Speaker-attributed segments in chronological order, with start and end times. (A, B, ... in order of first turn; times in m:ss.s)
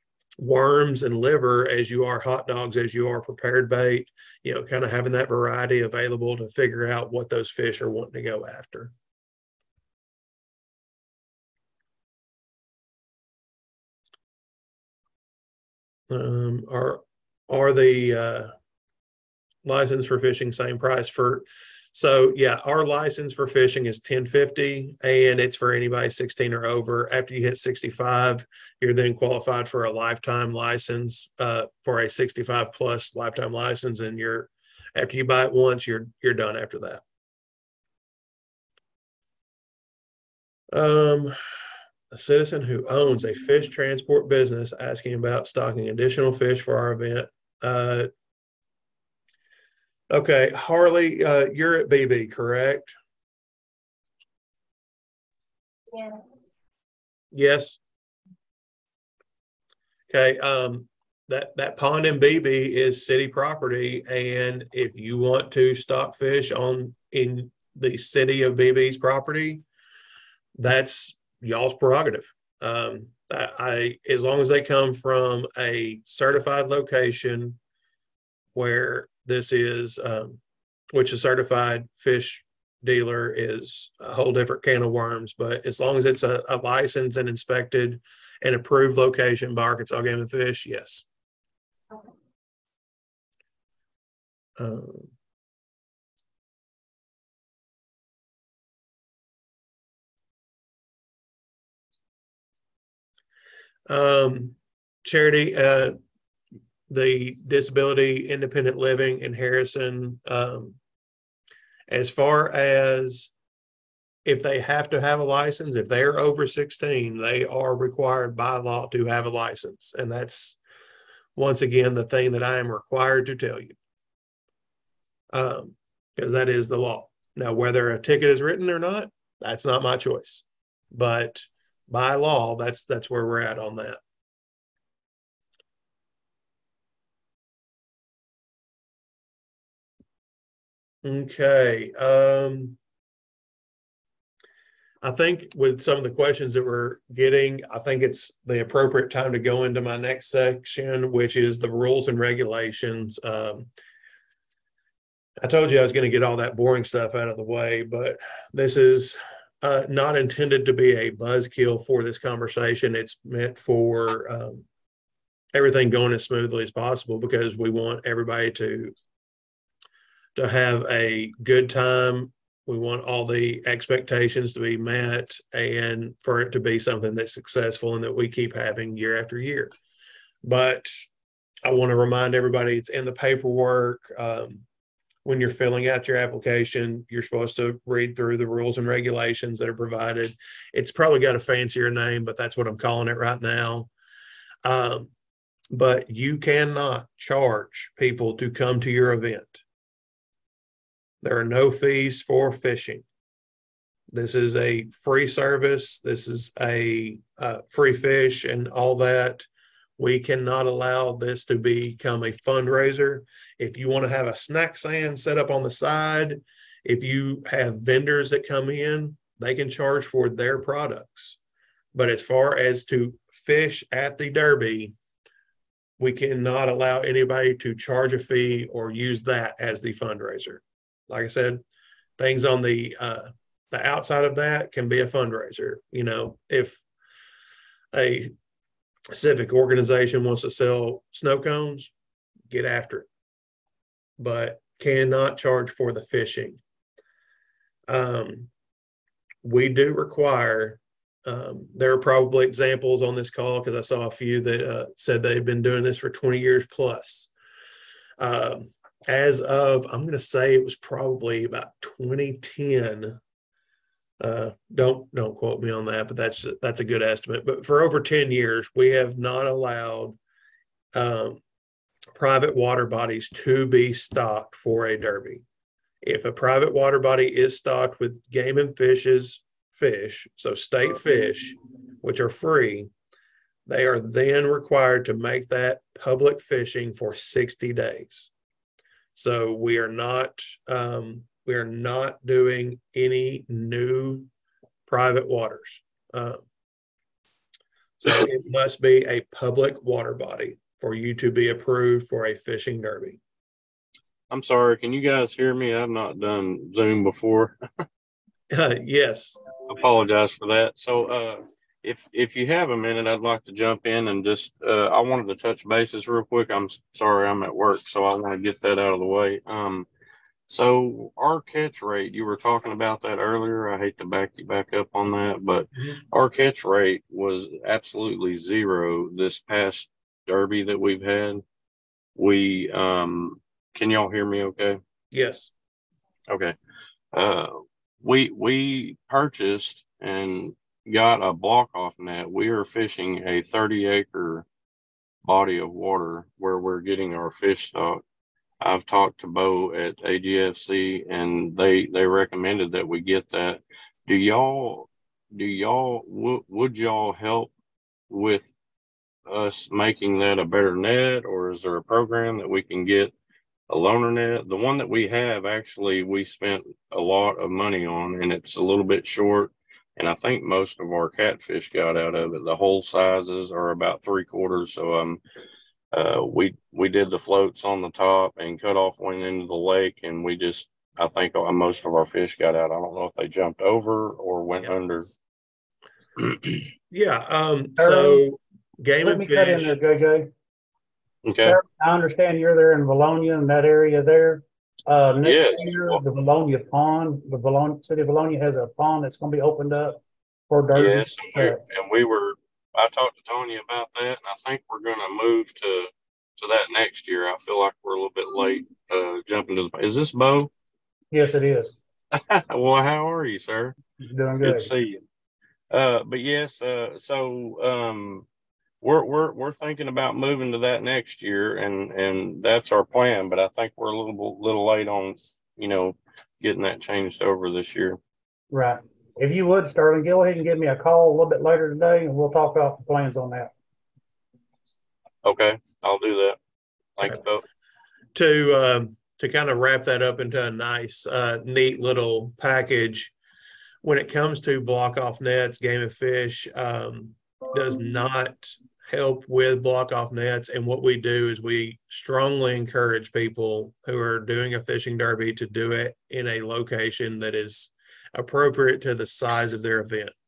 0:00.4-0:08.9 A
0:16.1-0:18.5 A
0:19.6-0:37.0 A
0:40.7-0:41.4 A
0:42.1-0:48.1 A
0:50.1-0:52.9 A
0:57.3-0:57.8 A
1:00.1-1:09.6 A
1:10.6-1:17.6 A
1:18.6-1:20.4 A
1:20.9-1:31.0 A
1:34.6-1:35.1 A
1:43.9-1:46.0 A
1:46.9-1:50.8 A
1:51.9-1:53.3 A
1:54.2-2:00.6 A
2:01.4-2:03.8 A
2:05.3-2:14.0 A
2:21.0-2:22.8 A
2:25.0-2:33.7 A
2:35.4-2:44.7 A
2:45.5-2:48.9 A
2:50.4-2:59.7 A
3:00.4-3:01.1 A
3:01.6-3:04.6 A
3:05.2-3:13.9 A
3:14.6-3:15.1 A
3:15.7-3:19.6 A
3:21.2-3:23.0 A
3:24.1-3:29.5 A
3:30.0-3:41.4 A
3:41.9-3:45.0 A
3:46.0-3:51.6 A
3:52.2-3:56.8 A
3:57.9-3:58.3 A
3:59.1-4:01.9 A
4:02.5-4:03.1 A
4:04.2-4:06.6 A
4:07.9-4:08.5 A
4:09.4-4:17.3 A
4:18.2-4:23.2 A
4:24.2-4:30.2 A
4:30.9-4:31.4 A
4:32.2-4:35.4 A
4:36.0-4:42.9 A
4:43.7-4:48.3 A
4:49.2-4:54.3 A
4:54.9-4:56.4 A
4:58.0-5:03.2 A
5:04.3-5:07.6 B
5:08.5-5:09.4 A
5:09.7-5:19.9 B
5:20.5-5:31.4 B
5:32.2-5:34.8 B
5:35.1-5:35.5 A
5:36.3-5:36.5 B
5:37.1-5:44.4 B
5:45.2-5:48.0 B
5:48.6-5:57.5 B
5:58.1-5:58.5 B
5:59.3-6:03.1 B
6:03.7-6:15.2 B
6:15.9-6:25.1 B
6:26.2-6:26.5 B
6:26.9-6:29.8 A
6:27.8-6:28.2 C
6:29.0-6:30.3 C
6:31.3-6:31.6 B
6:31.4-6:40.0 C
6:35.2-6:36.0 B
6:40.5-6:41.6 C
6:40.7-6:50.5 B
6:51.1-6:51.8 C
6:52.1-6:53.8 B
6:54.0-6:54.7 C
6:54.4-6:55.0 B
6:55.7-6:58.3 B
6:58.8-7:08.0 B
7:08.5-7:13.5 C
7:15.2-7:16.4 B
7:17.0-7:17.4 B
7:18.2-7:23.1 A
7:23.8-7:40.2 A